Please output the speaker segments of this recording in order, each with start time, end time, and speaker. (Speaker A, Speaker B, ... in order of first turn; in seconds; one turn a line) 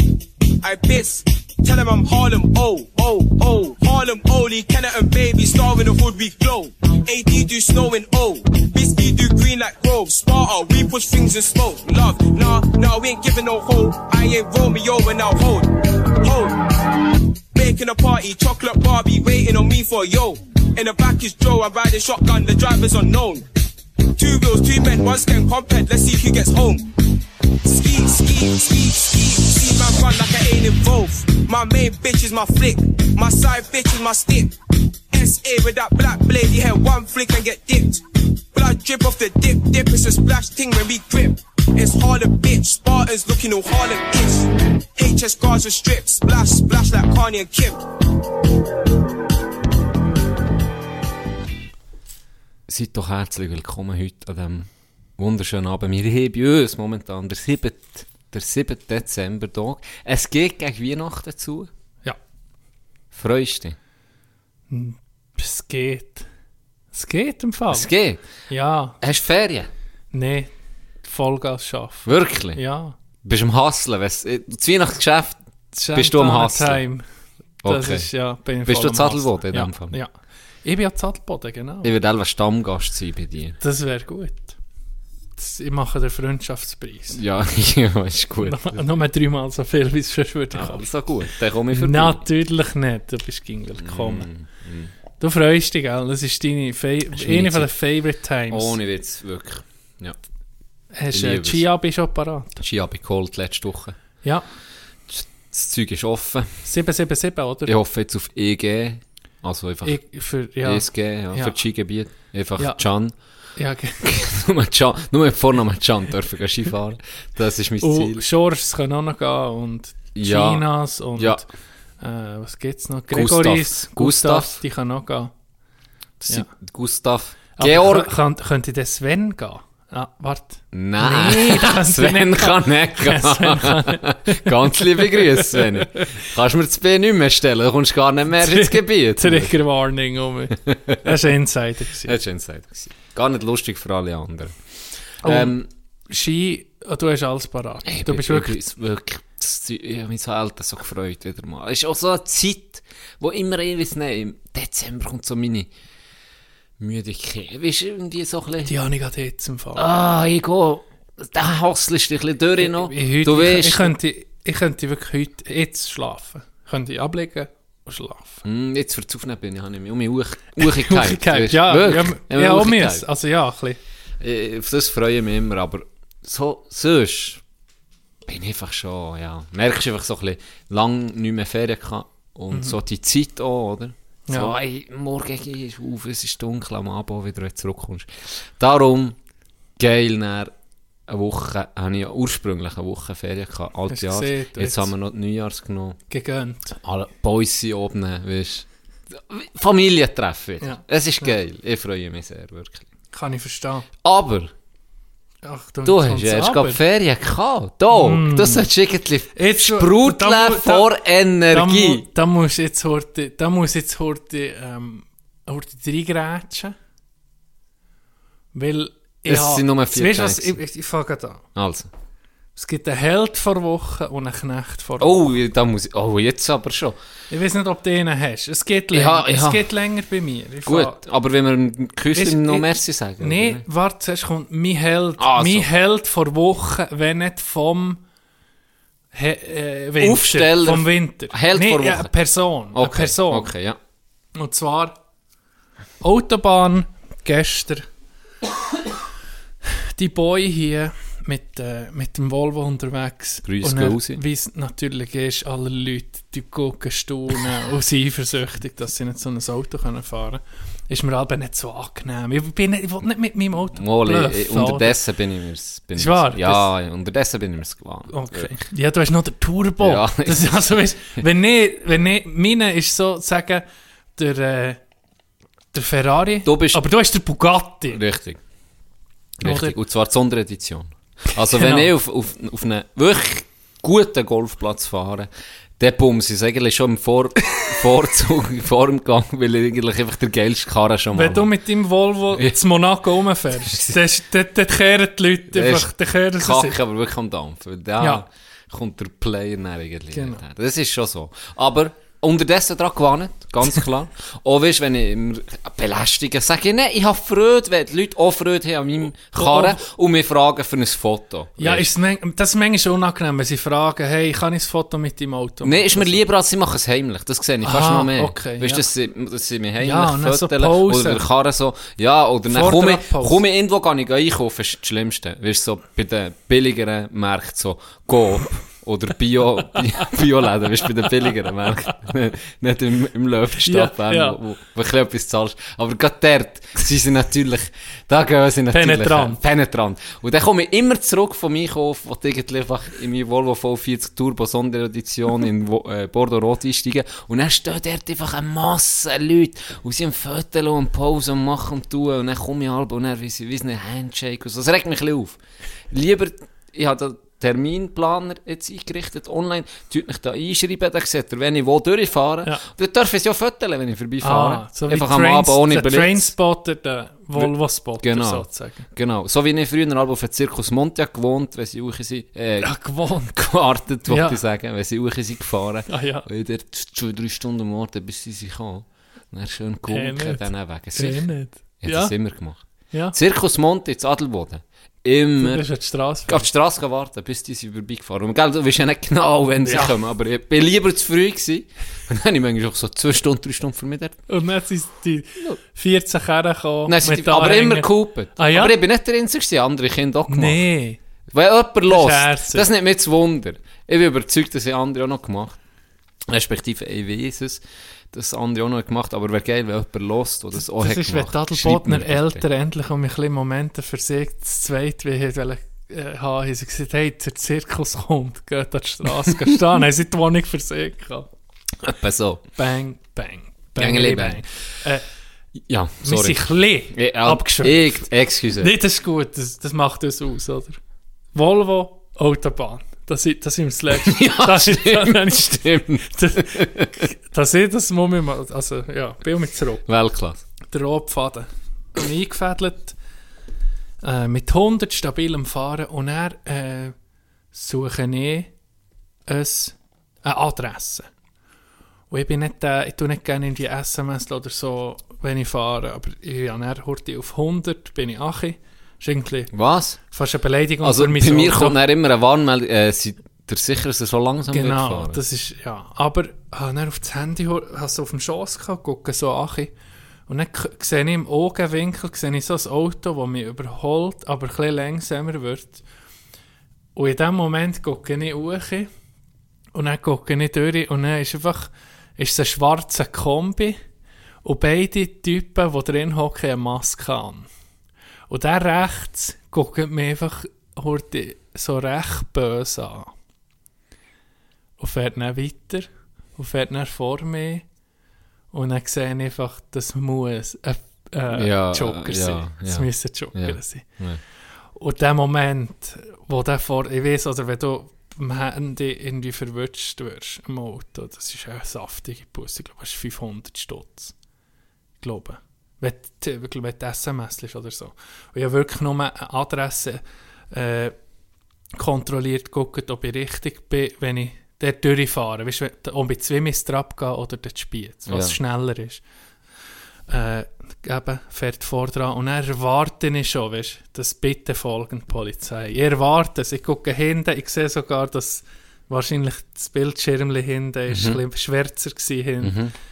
Speaker A: 0.6-16.6
Speaker A: 17.5-23.5
Speaker A: 24.1-26.9
Speaker A: 27.6-34.5
Speaker A: 35.1-38.0
Speaker A: 38.5-47.8
Speaker B: 52.7-61.7
Speaker B: 63.1-63.8
Speaker C: 64.7-66.2
Speaker C: 66.9-67.9
Speaker B: 67.7-68.2
Speaker C: 68.5-69.0
Speaker B: 69.0-69.7
Speaker C: 70.1-70.5
Speaker C: 71.0-72.9
Speaker B: 72.0-72.6
Speaker B: 73.2-75.4
Speaker C: 75.7-77.0
Speaker B: 75.9-76.8
Speaker B: 77.6-78.1
Speaker C: 77.6-80.1
Speaker B: 78.6-80.0
Speaker C: 80.6-81.9
Speaker B: 81.8-83.6
Speaker C: 83.6-84.6
Speaker C: 85.4-87.2
Speaker B: 87.1-88.8
Speaker C: 88.4-90.9
Speaker B: 90.5-92.2
Speaker C: 91.7-94.3
Speaker B: 93.8-94.9
Speaker C: 95.2-98.8
Speaker B: 97.1-97.7
Speaker B: 98.5-100.2
Speaker C: 100.9-102.6
Speaker B: 101.1-101.7
Speaker B: 102.6-104.0
Speaker B: 105.1-106.5
Speaker C: 106.6-107.7
Speaker B: 107.7-110.0
Speaker C: 109.8-111.5
Speaker B: 110.6-113.1
Speaker C: 113.5-114.0
Speaker B: 114.0-118.2
Speaker C: 117.8-121.5
Speaker B: 120.1-121.4
Speaker C: 122.0-125.3
Speaker B: 123.1-124.6
Speaker C: 126.2-126.5
Speaker B: 126.3-128.1
Speaker C: 127.6-136.1
Speaker B: 130.7-139.5
Speaker C: 138.3-142.2
Speaker B: 140.7-141.1
Speaker B: 142.0-144.6
Speaker C: 145.2-145.5
Speaker B: 145.2-145.7
Speaker C: 146.1-148.6
Speaker B: 147.8-155.7
Speaker B: 156.8-158.7
Speaker C: 158.6-159.8
Speaker B: 159.8-163.9
Speaker C: 162.6-168.4
Speaker B: 168.4-173.0
Speaker C: 170.6-173.8
Speaker B: 174.2-177.4
Speaker B: 178.2-189.2
Speaker C: 182.5-182.8
Speaker C: 184.3-184.6
Speaker B: 189.8-190.5
Speaker B: 191.1-196.0
Speaker C: 193.9-194.9
Speaker C: 196.1-196.8
Speaker B: 196.8-202.9
Speaker C: 200.6-201.3
Speaker C: 203.1-203.9
Speaker B: 204.0-204.5
Speaker C: 205.4-206.8
Speaker B: 205.8-212.1
Speaker C: 207.9-208.7
Speaker C: 209.3-210.9
Speaker C: 211.5-216.7
Speaker C: 218.5-221.4
Speaker B: 219.2-220.6
Speaker B: 221.6-221.9
Speaker C: 222.6-225.3
Speaker B: 225.0-227.0
Speaker C: 227.3-231.0
Speaker B: 228.9-229.6
Speaker B: 230.6-233.6
Speaker C: 232.1-238.0
Speaker B: 235.2-235.7
Speaker C: 239.1-243.5
Speaker B: 240.0-242.1
Speaker B: 242.7-243.8
Speaker C: 244.3-244.9
Speaker C: 246.0-247.8
Speaker C: 249.7-265.0
Speaker B: 253.4-254.2
Speaker B: 263.7-268.6
Speaker C: 265.9-266.7
Speaker C: 268.1-273.6
Speaker B: 269.8-270.9
Speaker C: 274.1-274.8
Speaker C: 275.7-278.0
Speaker B: 276.4-276.8
Speaker B: 277.9-278.4
Speaker B: 279.4-291.5
Speaker C: 279.4-279.8
Speaker C: 281.5-281.9
Speaker C: 291.1-296.8
Speaker B: 293.5-294.0
Speaker B: 295.5-311.9
Speaker C: 298.0-298.2
Speaker C: 300.1-300.4
Speaker C: 309.4-309.8
Speaker C: 311.6-316.2
Speaker B: 315.6-355.4
Speaker C: 317.6-318.8
Speaker C: 319.8-321.2
Speaker C: 322.5-323.4
Speaker C: 333.6-334.4
Speaker C: 338.7-339.4
Speaker B: 355.9-366.3
Speaker C: 364.2-368.9
Speaker B: 367.4-381.3
Speaker C: 372.6-373.3
Speaker C: 374.1-374.4
Speaker C: 375.9-376.2
Speaker C: 379.9-382.1
Speaker B: 381.8-382.6
Speaker B: 383.1-385.6
Speaker C: 385.4-386.5
Speaker B: 386.3-394.2
Speaker C: 389.6-390.0
Speaker C: 394.3-398.8
Speaker B: 396.9-400.6
Speaker C: 400.3-401.0
Speaker B: 401.3-405.6
Speaker C: 401.9-402.7
Speaker B: 406.3-412.4
Speaker C: 410.8-421.3
Speaker B: 421.8-422.4
Speaker C: 422.6-425.0
Speaker B: 423.8-424.4
Speaker B: 425.7-428.8
Speaker C: 426.0-428.1
Speaker C: 428.6-430.8
Speaker C: 431.3-439.9
Speaker B: 433.9-437.1
Speaker B: 439.9-440.4
Speaker C: 440.7-442.9
Speaker C: 444.0-446.9
Speaker C: 447.5-448.5
Speaker C: 449.3-451.1
Speaker C: 452.1-459.5
Speaker B: 459.5-460.0
Speaker C: 460.1-461.8
Speaker B: 460.8-465.2
Speaker C: 464.5-469.7
Speaker C: 470.3-475.8
Speaker C: 476.9-478.9
Speaker C: 479.7-483.8
Speaker C: 484.4-487.5
Speaker C: 488.3-493.1
Speaker C: 494.8-497.6
Speaker C: 498.5-503.8
Speaker B: 501.3-504.2
Speaker C: 504.8-514.1
Speaker C: 515.0-520.9
Speaker C: 521.7-529.0
Speaker B: 528.1-528.4
Speaker C: 530.1-542.6
Speaker B: 540.9-541.2
Speaker B: 542.4-542.7